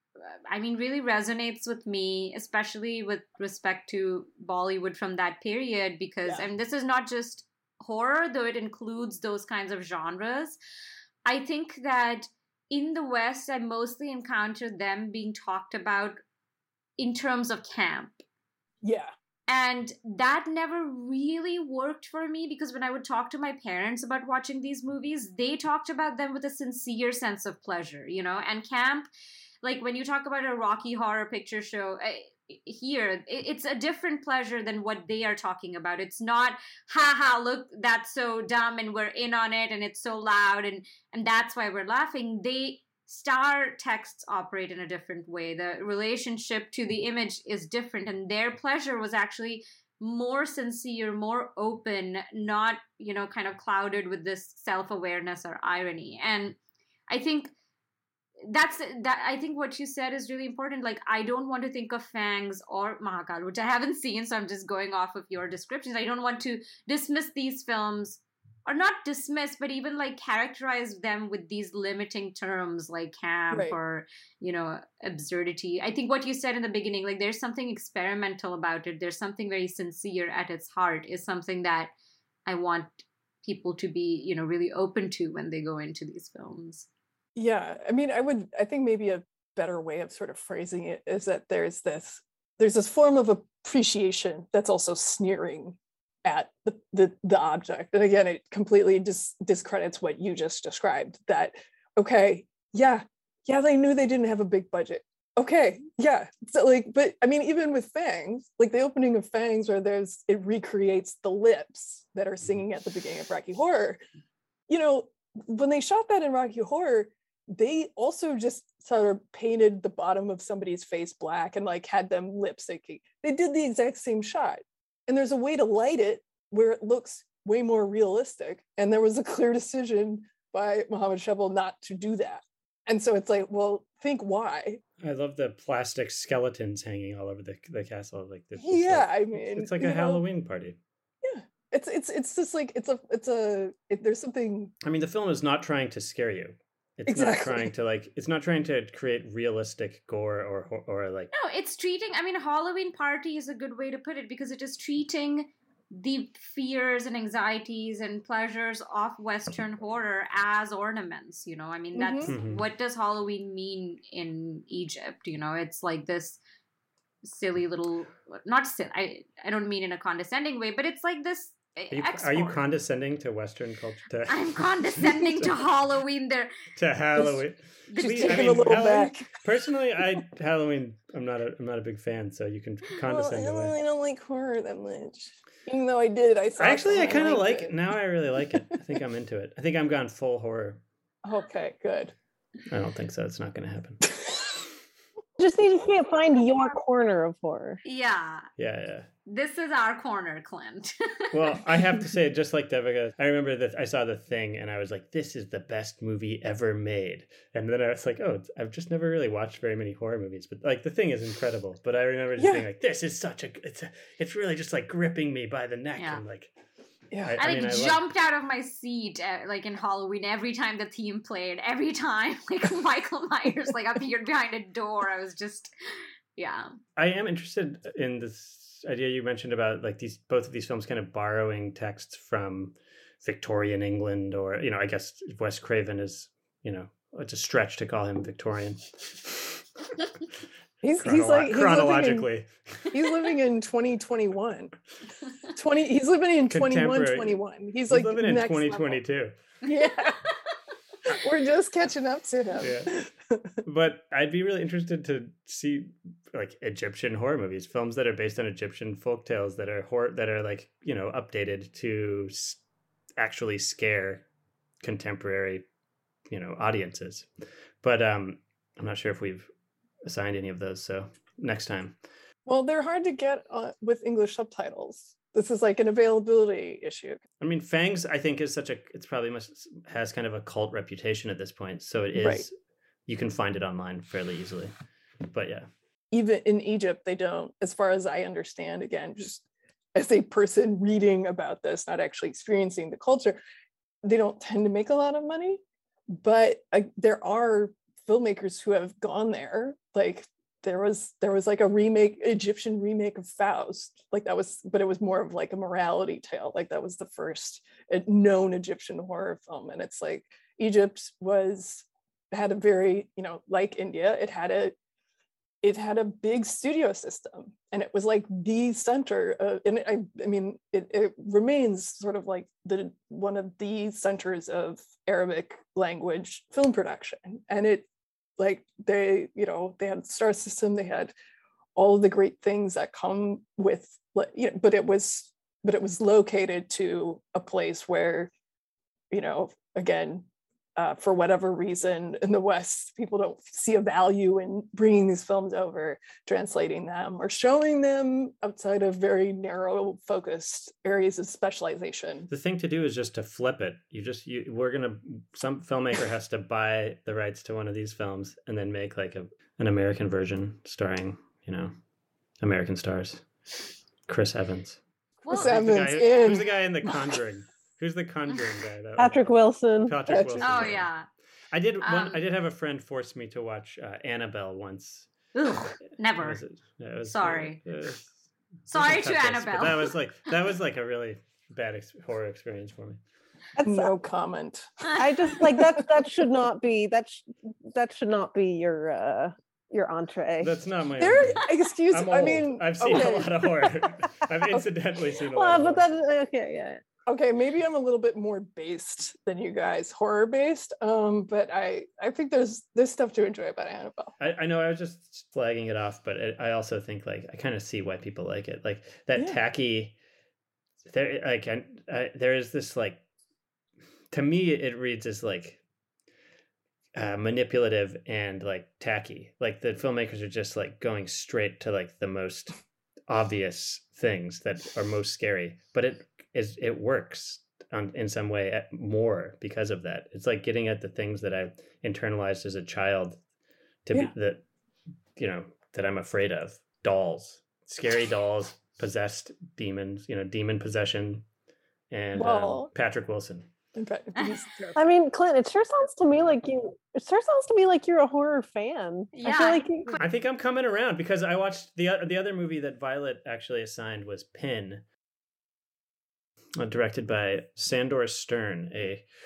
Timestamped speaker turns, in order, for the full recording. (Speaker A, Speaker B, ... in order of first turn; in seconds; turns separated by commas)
Speaker A: 0.2-10.6, Speaker A: 11.2-16.2, Speaker A: 17.0-18.2, Speaker B: 18.8-19.1, Speaker A: 19.5-29.1, Speaker A: 29.6-56.6, Speaker A: 57.1-57.5, Speaker A: 58.5-81.9, Speaker B: 73.5-73.8, Speaker A: 82.5-86.8, Speaker B: 87.3-114.0, Speaker B: 114.7-134.8, Speaker C: 135.0-140.8, Speaker B: 138.6-140.2, Speaker B: 141.2-144.7, Speaker C: 144.8-151.3, Speaker B: 147.1-147.7, Speaker A: 151.3-166.4, Speaker B: 161.9-162.3, Speaker C: 162.3-162.6, Speaker A: 167.2-172.6, Speaker C: 171.9-175.5, Speaker A: 174.3-176.5, Speaker C: 176.8-183.7, Speaker A: 177.9-178.7, Speaker B: 178.0-179.4, Speaker B: 183.0-187.7, Speaker C: 186.6-190.8, Speaker B: 191.2-192.1, Speaker C: 192.7-194.1, Speaker D: 195.4-197.8, Speaker A: 197.8-198.5, Speaker C: 198.6-199.1, Speaker A: 199.2-201.6, Speaker C: 201.3-216.5, Speaker B: 212.4-212.6, Speaker A: 215.9-216.2, Speaker B: 217.1-217.4, Speaker C: 217.2-218.0, Speaker A: 217.4-225.7, Speaker A: 226.3-226.7, Speaker C: 227.0-239.6, Speaker B: 240.8-242.3, Speaker C: 241.0-242.9, Speaker B: 242.9-244.7, Speaker B: 245.5-249.0, Speaker C: 246.5-247.4, Speaker C: 247.9-249.3, Speaker B: 249.6-250.3, Speaker B: 251.0-253.5, Speaker C: 252.6-252.9, Speaker C: 253.6-262.6, Speaker C: 263.2-264.2, Speaker C: 264.8-265.6, Speaker C: 266.3-267.3, Speaker C: 267.8-269.5, Speaker C: 270.1-271.9, Speaker B: 272.4-277.2, Speaker C: 277.4-282.5, Speaker B: 282.2-282.4, Speaker C: 283.1-284.7, Speaker C: 285.2-285.7, Speaker B: 286.1-289.4, Speaker B: 289.9-293.4, Speaker B: 294.0-295.6, Speaker B: 296.1-314.7, Speaker B: 315.6-327.9, Speaker B: 328.4-331.1, Speaker B: 331.8-338.3, Speaker B: 339.1-340.2, Speaker B: 340.8-352.3, Speaker C: 352.3-361.7, Speaker C: 362.4-363.2, Speaker C: 364.1-370.9, Speaker A: 365.2-365.5, Speaker B: 365.3-367.2, Speaker D: 369.0-370.5, Speaker B: 370.2-370.6, Speaker A: 370.4-371.1, Speaker C: 371.5-375.1, Speaker A: 371.8-372.2, Speaker A: 375.3-376.4, Speaker C: 376.2-378.1, Speaker A: 377.1-377.6, Speaker C: 378.6-383.0, Speaker A: 378.7-379.9, Speaker D: 383.6-383.9, Speaker B: 383.6-385.9, Speaker D: 384.9-390.6, Speaker C: 390.4-395.8, Speaker B: 391.0-393.9, Speaker D: 395.3-396.8, Speaker B: 397.1-404.1, Speaker C: 404.2-409.9, Speaker C: 410.9-413.0, Speaker C: 414.1-415.6, Speaker C: 416.9-433.2, Speaker C: 433.9-434.4, Speaker C: 435.2-441.2, Speaker C: 441.9-443.5, Speaker B: 442.1-442.7, Speaker B: 443.7-444.8, Speaker D: 444.8-449.9, Speaker A: 449.1-450.0, Speaker C: 450.0-454.8, Speaker C: 456.6-459.1